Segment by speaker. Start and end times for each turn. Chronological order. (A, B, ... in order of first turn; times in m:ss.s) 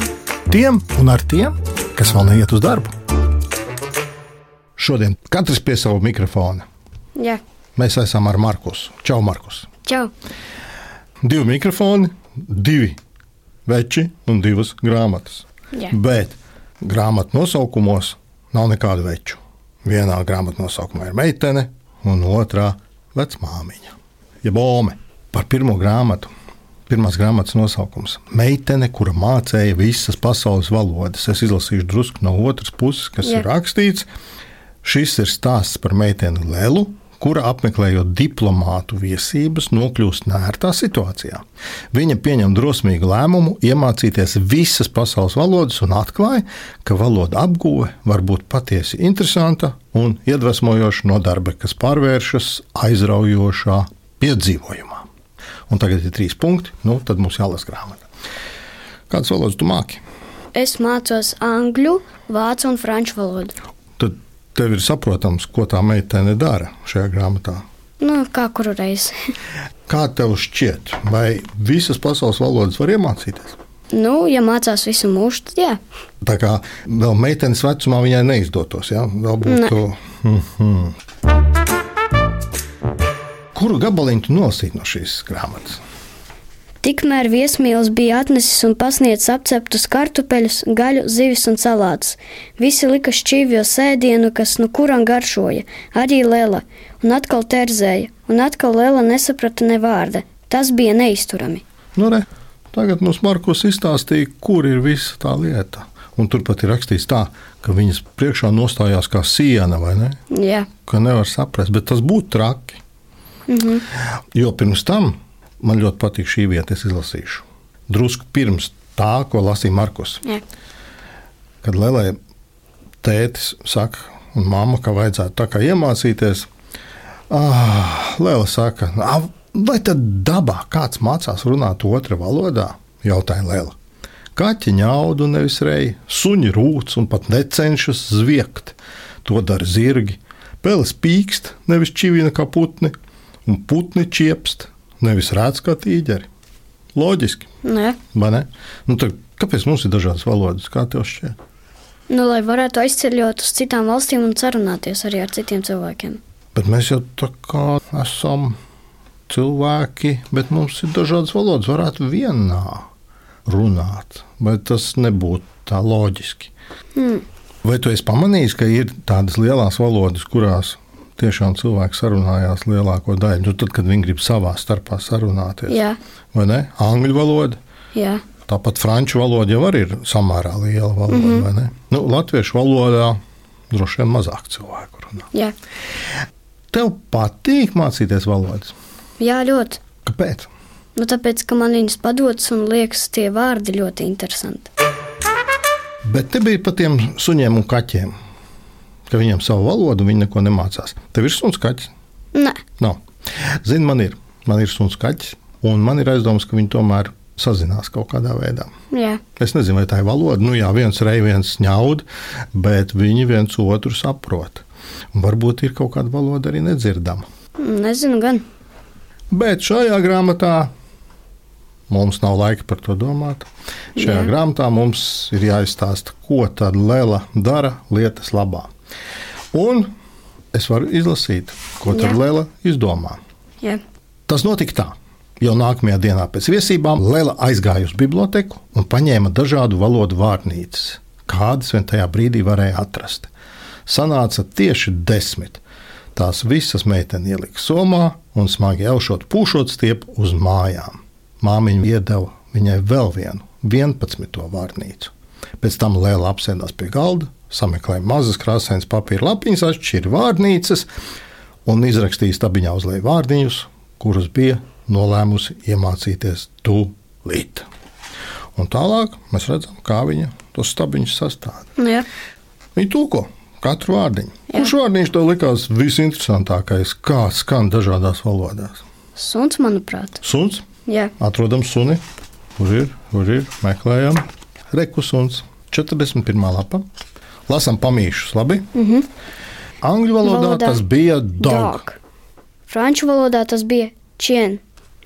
0:00.5-0:02.9 A
0:04.8-0:06.6 A
0:07.8-0:09.7 A
0:09.9-0:10.1 B
0:11.2-0:13.0 A
0:13.7-0:26.3 A
0:26.9-0:34.1 A
0:34.8-0:55.1 A
0:55.7-0:58.1 A
0:59.1-1:00.0 A
1:00.6-1:03.6 B
1:04.0-1:07.6 A
1:08.0-1:09.1 B
1:09.9-1:13.6 A
1:13.9-1:15.8 B
1:16.2-1:21.0 A
1:19.4-1:19.8 B
1:23.6-1:25.8 A
1:26.8-1:41.6 B
1:42.0-1:50.2 A
1:50.3-1:50.7 B
1:50.9-1:52.8 A
1:53.5-1:53.8 B
1:54.3-2:00.2 A
2:01.6-2:02.2 A
2:03.0-2:06.5 A
2:07.3-2:13.8 A
2:14.4-2:22.9 A
2:23.5-2:26.3 A
2:27.0-2:27.5 A
2:27.6-2:28.0 B
2:28.1-2:31.4 A
2:32.1-2:36.2 B
2:36.6-2:38.6 A
2:39.3-2:42.9 A
2:43.5-2:46.5 A
2:47.0-2:47.2 B
2:47.6-2:55.8 A
2:55.7-2:56.0 B
2:56.3-2:57.6 A
2:57.9-2:58.2 B
2:58.5-3:03.2 A
3:01.1-3:01.5 B
3:03.7-3:05.3 A
3:06.7-3:08.7 A
3:09.2-3:09.8 B
3:10.0-3:10.5 A
3:11.0-3:14.7 B
3:16.0-3:18.1 A
3:19.1-3:21.9 A
3:22.3-3:22.6 B
3:23.6-3:28.7 A
3:28.9-3:29.2 B
3:29.4-3:37.2 A
3:37.6-3:38.4 B
3:39.3-3:40.7 A
3:41.9-3:48.7 A
3:44.0-3:44.3 B
3:49.5-3:49.9 A
3:50.5-3:53.2 A
3:51.9-3:52.2 B
3:54.3-4:03.3 A
4:03.9-4:05.6 A
4:06.2-4:20.9 A
4:21.7-4:27.7 A
4:28.6-4:31.7 A
4:31.8-4:32.1 B
4:32.8-4:38.8 A
4:39.2-4:40.2 B
4:40.2-4:40.6 A
4:40.9-4:41.1 B
4:41.2-4:42.0 A
4:42.6-4:46.8 A
4:47.5-4:48.7 A
4:48.8-4:49.1 B
4:49.8-4:51.8 A
4:50.2-4:50.8 B
4:51.4-4:52.0 B
4:52.7-4:54.6 B